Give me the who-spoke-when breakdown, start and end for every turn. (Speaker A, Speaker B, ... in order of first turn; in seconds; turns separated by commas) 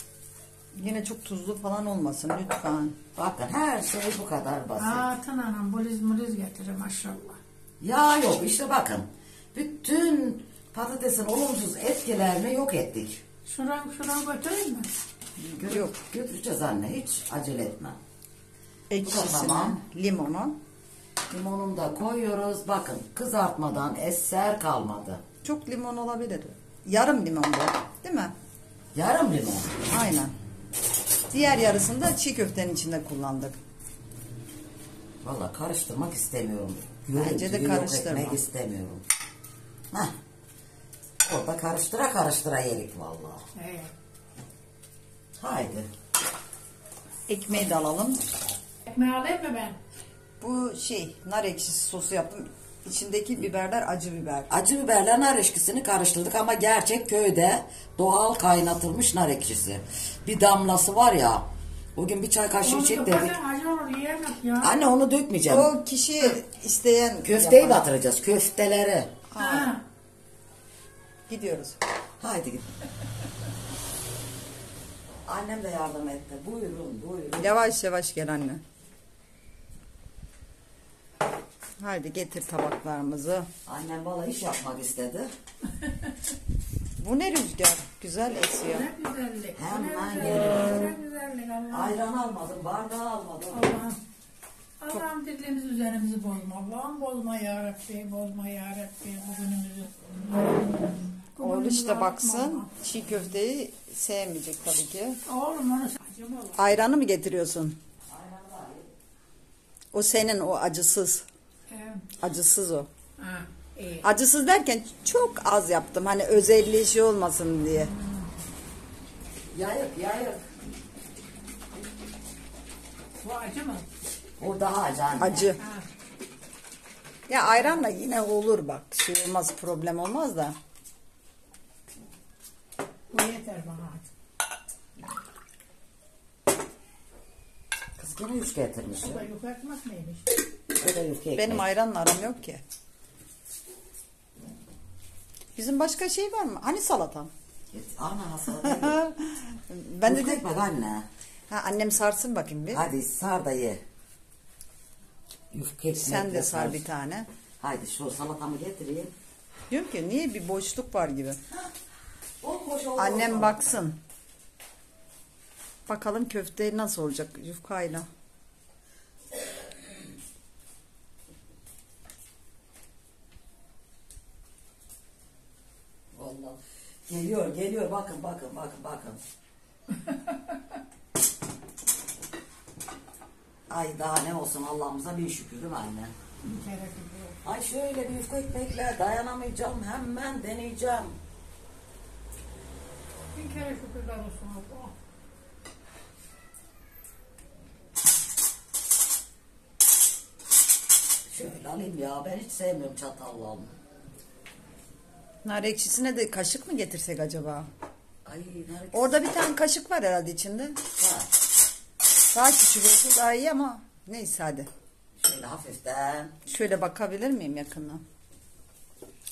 Speaker A: 0.7-3.0, Speaker B: 3.1-5.1, Speaker C: 4.8-7.4, Speaker B: 7.8-13.2, Speaker C: 13.4-14.9, Speaker A: 15.4-16.0, Speaker B: 15.6-18.0, Speaker A: 18.9-20.6, Speaker B: 19.0-19.8, Speaker B: 21.3-25.2, Speaker A: 25.4-28.3, Speaker B: 28.9-29.7, Speaker A: 29.9-30.3, Speaker A: 31.3-33.6, Speaker B: 35.2-39.0, Speaker A: 37.1-38.4, Speaker B: 41.2-43.4, Speaker C: 43.5-43.9, Speaker B: 45.4-45.9, Speaker A: 47.3-48.2, Speaker C: 48.9-49.8, Speaker A: 50.4-54.5, Speaker B: 54.5-61.4, Speaker B: 62.0-63.3, Speaker C: 62.6-64.8, Speaker B: 64.6-65.7, Speaker A: 65.5-67.9, Speaker B: 67.2-69.2, Speaker A: 69.3-69.7, Speaker C: 69.4-69.8, Speaker A: 71.3-71.8, Speaker B: 72.2-72.7, Speaker B: 75.2-77.6, Speaker A: 77.4-78.6, Speaker A: 81.8-83.5, Speaker B: 83.7-85.3, Speaker A: 87.0-88.9, Speaker C: 88.6-92.0, Speaker B: 89.5-90.9, Speaker B: 91.7-93.7, Speaker C: 93.5-94.0, Speaker C: 94.8-102.7, Speaker A: 101.4-105.2, Speaker C: 105.3-106.7, Speaker A: 106.6-107.8, Speaker B: 108.1-108.9, Speaker A: 109.9-111.2, Speaker C: 111.7-112.0, Speaker A: 112.2-112.9, Speaker C: 113.2-114.0, Speaker A: 114.0-117.9, Speaker B: 119.5-120.4, Speaker C: 123.2-123.8, Speaker B: 124.4-125.5, Speaker A: 125.2-125.6, Speaker C: 125.6-125.8, Speaker A: 127.3-130.6, Speaker C: 133.1-134.1, Speaker B: 138.0-139.2, Speaker C: 138.9-140.2, Speaker B: 140.7-141.6, Speaker A: 141.3-142.6, Speaker A: 145.6-147.3, Speaker B: 147.7-149.0, Speaker A: 148.6-150.4, Speaker B: 150.0-151.1, Speaker A: 151.5-152.8, Speaker B: 152.7-153.8, Speaker B: 155.5-156.8, Speaker A: 156.0-157.3, Speaker B: 157.6-159.1, Speaker A: 159.7-161.4, Speaker B: 162.4-163.7, Speaker A: 163.0-164.0, Speaker A: 165.9-168.1, Speaker B: 176.1-179.2, Speaker B: 183.7-186.1, Speaker C: 186.4-187.4, Speaker B: 187.4-191.2, Speaker C: 193.3-194.9, Speaker B: 201.3-203.7, Speaker A: 205.4-207.7, Speaker B: 208.2-209.3, Speaker A: 208.9-210.8, Speaker B: 211.0-211.3, Speaker A: 212.3-214.7, Speaker B: 215.2-216.3, Speaker A: 216.4-218.0